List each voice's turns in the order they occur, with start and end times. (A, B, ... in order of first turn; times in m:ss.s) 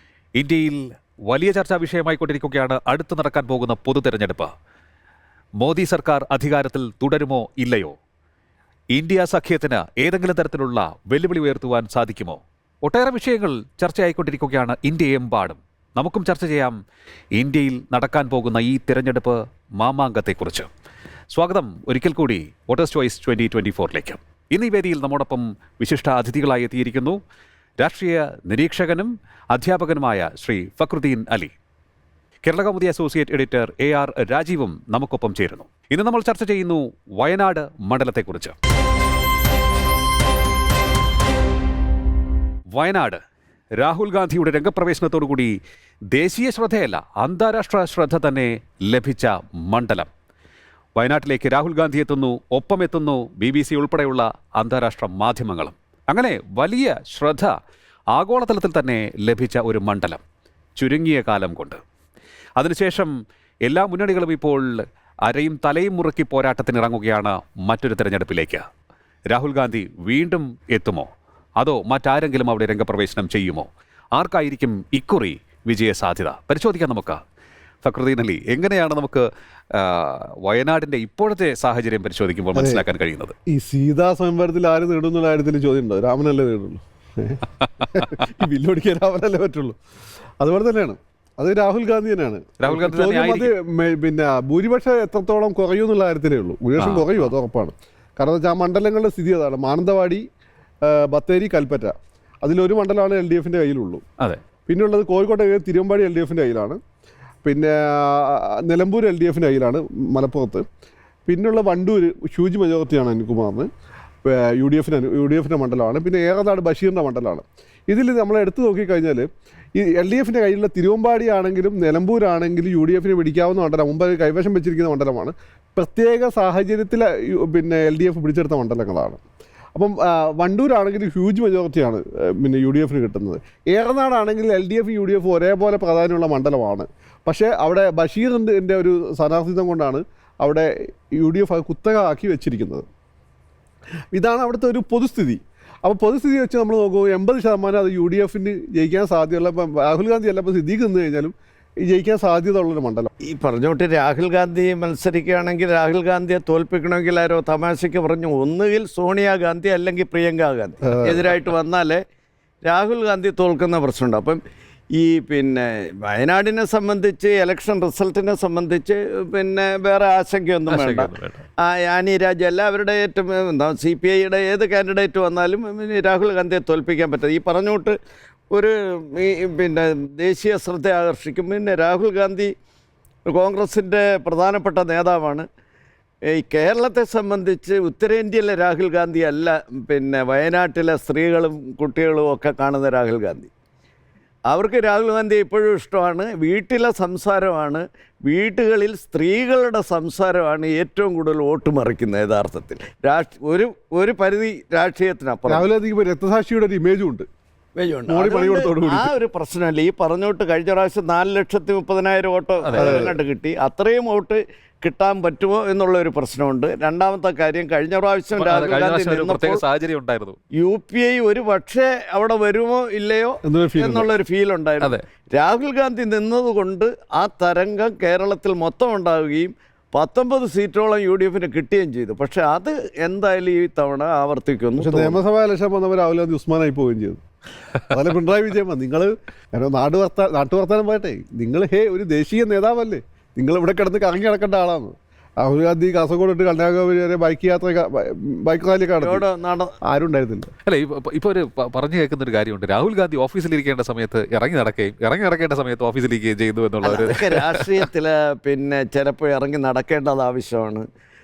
0:00.4-0:04.5 A
0:05.6-0:07.9 A
0:08.9-0:16.8 A
0:17.4-0:20.7 A
0:21.3-0:27.2 A
0:27.8-0:31.5 A
0:32.4-0:38.6 A
0:42.7-0:43.2 A
0:43.8-0:45.6 A
0:46.1-0:50.1 A
0:51.0-0:57.5 A
0:58.1-1:00.2 A
1:00.8-1:01.8 A
1:02.6-1:08.6 A
1:09.3-1:17.2 A
1:17.8-1:23.3 A
1:22.5-1:22.8 B
1:23.5-1:29.8 B
1:30.4-1:40.2 B
1:32.6-1:33.5 A
1:36.8-1:37.3 A
1:40.8-1:44.0 B
1:44.7-1:46.8 B
1:47.4-1:50.6 B
1:51.2-1:53.7 B
1:54.2-2:09.2 B
2:09.7-2:22.9 B
2:24.1-2:33.1 B
2:33.2-2:42.0 C
2:40.8-2:41.2 B
2:42.6-2:44.4 C
2:44.9-2:57.9 C
2:50.7-2:51.4 A
2:58.5-3:02.5 C
3:03.3-3:05.4 C
3:06.3-3:13.5 C
3:14.5-3:25.7 C
3:25.5-3:27.2 B
3:27.8-3:39.6 C
3:28.1-3:29.2 B
3:32.6-3:33.1 A
3:32.8-3:33.1 B
3:38.4-3:40.4 A
3:40.6-3:55.2 C
3:43.4-3:44.1 B
3:54.8-3:57.2 B
3:57.9-4:09.2 B
4:09.0-4:09.7 C
4:09.8-4:10.5 B
4:10.6-4:17.9 A
4:16.8-4:20.8 C